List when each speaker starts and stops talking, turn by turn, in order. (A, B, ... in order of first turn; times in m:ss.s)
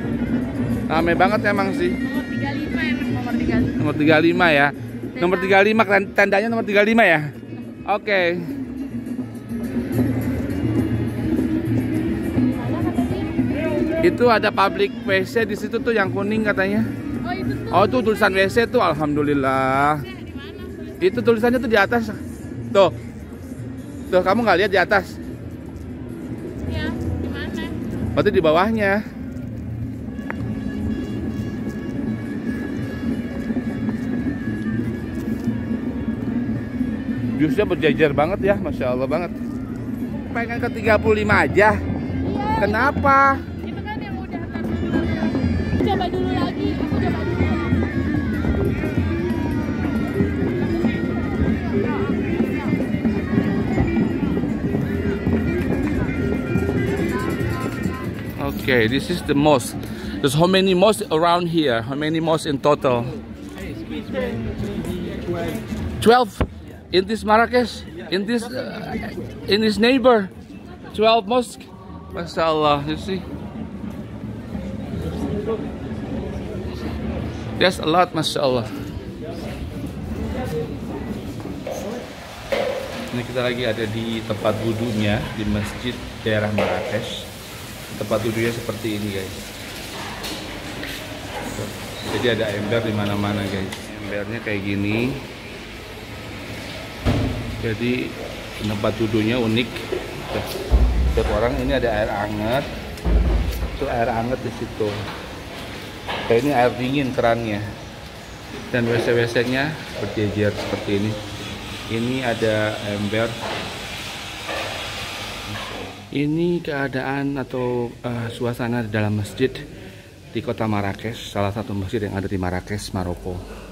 0:00.9-0:02.0 A
0:02.0-0:03.8 B
0:03.8-0:07.3 A
0:05.3-0:05.6 B
0:07.8-0:08.4 A
0:12.4-0:13.3 B
0:14.0-0:16.9 A
0:17.2-0:18.2 B
0:17.7-0:20.1 A
0:20.0-0:21.0 B
0:21.0-0:22.2 A
0:24.1-0:25.2 A
0:26.7-0:27.8 B
0:28.1-0:29.0 A
0:37.4-0:39.3 A
0:40.1-0:41.8 A
0:42.2-0:42.9 B
0:42.6-0:43.4 A
0:43.5-0:47.8 B
0:58.4-1:03.1 A
1:06.0-1:10.3 A
1:10.9-1:13.2 A
1:17.6-1:18.7 A
1:23.1-1:27.3 A
1:27.9-1:29.4 A
1:31.5-1:35.2 A
1:37.6-1:39.8 A
1:41.1-1:42.7 A
1:43.7-1:45.0 A
1:46.3-1:47.6 A
1:48.7-1:51.2 A
1:51.9-1:53.4 A
1:56.1-1:59.6 A
2:00.3-2:03.4 A